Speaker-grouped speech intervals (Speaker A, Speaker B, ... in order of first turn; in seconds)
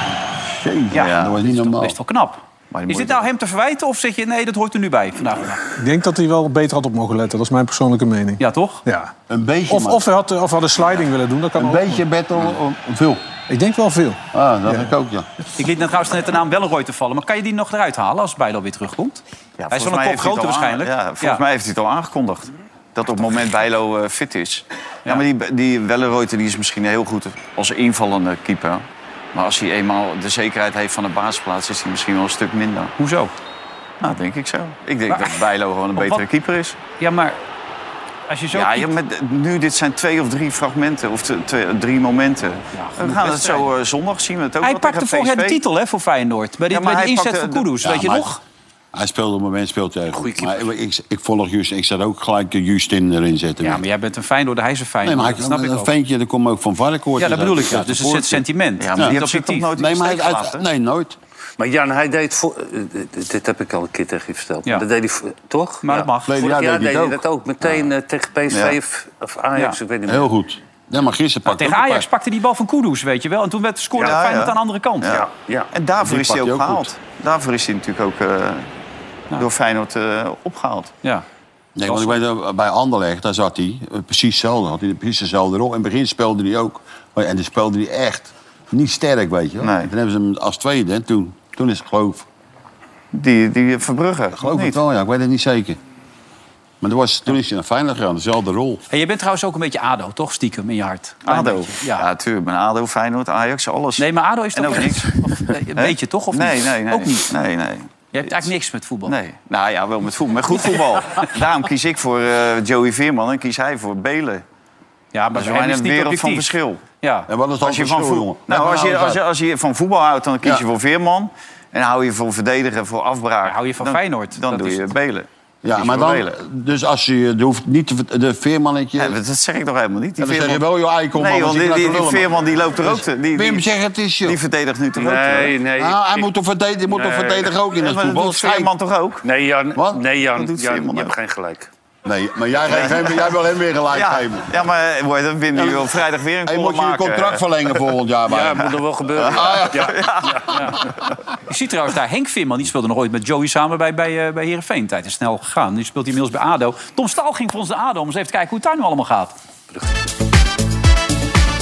Speaker A: 0.5-2.0, 9.3-10.1, 11.6-13.2, 14.3-15.3, 47.8-48.3, 48.9-53.8, 55.0-58.4, 59.8-61.2, 66.2-67.2, 70.1-72.1, 76.0-76.9, 81.8-92.3, 94.4-95.8, 96.8-98.8, 117.3-119.2, 125.6-129.2, 130.2-132.3, 132.8-134.4, 135.8-138.7, 139.8-140.0, 142.1-144.5, 145.5-145.9, 146.5-150.1
Speaker B: 0.9-5.6, 8.4-8.8, 15.6-21.4, 33.0-33.3, 35.1-35.4, 36.0-36.2, 37.0-37.4, 38.3-38.9, 42.7-43.7, 44.6-48.4, 53.6-55.9, 57.2-59.7, 65.8-66.3, 71.5-75.2, 81.9-82.2, 98.9-102.1, 104.0-107.3, 108.1-109.2, 115.1-116.5, 117.0-117.3, 123.5-124.9, 151.5-159.3
Speaker C: 0.9-1.4, 2.7-3.3, 19.6-32.9, 34.0-36.8, 38.5-45.6, 46.7-47.7, 58.8-60.6, 68.5-68.8, 74.0-78.7, 79.3-80.9, 89.6-89.9, 93.1-94.8, 101.3-105.1, 105.8-108.5, 109.1-114.4, 115.3-116.8, 117.6-126.3, 129.0-133.7, 134.2-135.6, 137.8-139.2, 140.4-141.1, 142.7-143.0, 143.9-147.4, 149.2-150.6
Speaker D: 5.8-9.1, 9.7-12.0, 13.5-14.9
Speaker E: 50.1-50.7, 61.6-70.3, 75.0-75.7, 135.0-136.3, 136.9-137.5, 139.2-141.7, 148.3-150.5